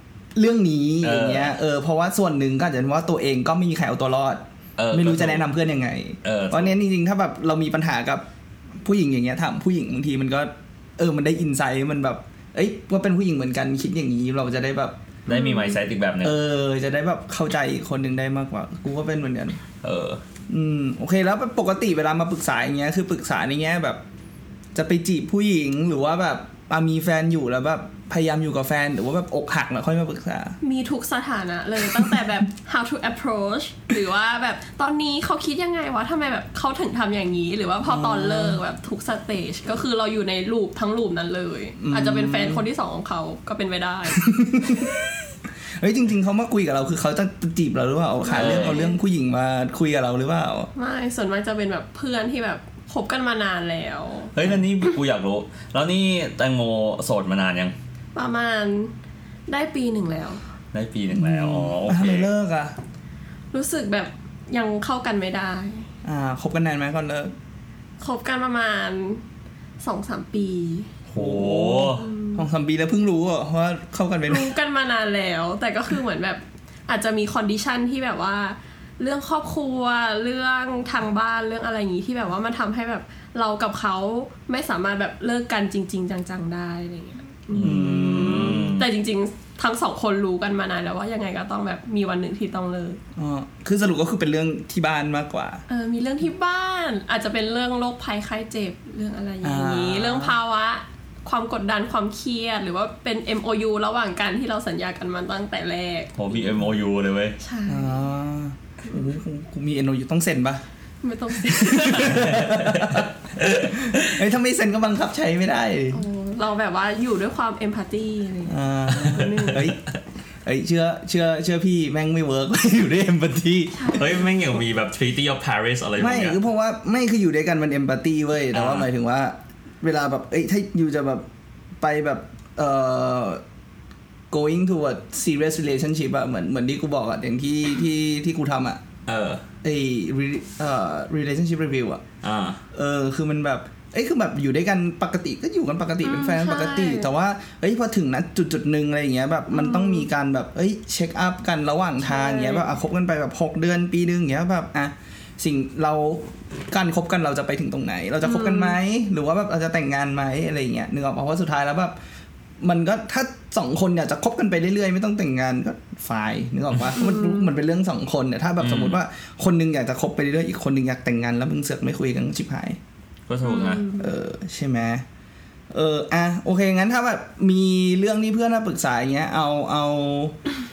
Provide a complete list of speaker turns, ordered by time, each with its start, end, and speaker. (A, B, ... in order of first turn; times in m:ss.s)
0:00.3-0:08.2 A
0:01.0-0:01.5 B
0:04.8-0:05.4 B
0:06.2-0:06.7 B
0:08.8-0:15.0 A
0:15.3-0:16.4 B
0:15.3-0:15.8 C
0:16.2-0:19.6 A
0:19.8-0:20.2 B
0:20.5-0:24.0 A
0:24.7-0:30.6 A
0:30.6-0:44.2 C
0:37.8-0:38.6 A
0:41.8-0:42.6 A
0:44.2-0:44.9 A
0:45.8-0:50.7 A
0:48.2-0:49.0 C
0:48.3-0:48.8 B
0:50.7-0:54.3 C
0:54.3-0:57.7 B
0:58.1-0:58.9 C
0:59.5-1:00.4 C
1:00.7-1:02.3 B
1:01.1-1:02.8 A
1:03.5-1:05.9 C
1:06.0-1:07.3 A
1:08.0-1:09.2 C
1:09.8-1:10.9 C
1:11.1-1:12.0 B
1:11.1-1:14.5 A
1:11.9-1:12.4 C
1:14.3-1:33.0 C
1:27.5-1:28.7 A
1:27.5-1:28.8 B
1:33.2-1:35.6 A
1:35.7-1:46.4 C
1:39.4-1:40.3 A
1:46.2-1:47.4 B
1:47.4-1:48.0 C
1:47.7-1:50.6 A
1:51.0-1:52.2 C
1:51.3-1:53.1 A
1:51.9-1:54.2 B
1:53.6-1:56.0 A
1:55.9-1:59.7 C
1:58.5-1:59.8 A
1:59.0-1:59.7 B
2:00.4-2:04.1 A
2:03.7-2:04.3 C
2:04.0-2:06.4 B
2:06.0-2:11.3 A
2:08.5-2:08.9 B
2:11.8-2:13.4 A
2:14.3-2:18.8 A
2:19.1-2:19.4 B
2:19.6-2:22.0 A
2:22.2-2:22.6 B
2:22.7-2:42.0 A
2:26.0-2:27.1 C
2:29.5-2:30.1 C
2:32.0-2:32.7 C
2:38.2-2:38.8 C
2:42.6-2:52.8 A
2:47.0-2:47.5 C
2:48.6-2:49.0 B
2:53.3-2:53.8 B
2:53.4-2:54.1 C
2:53.9-2:55.0 A
2:55.7-3:00.4 A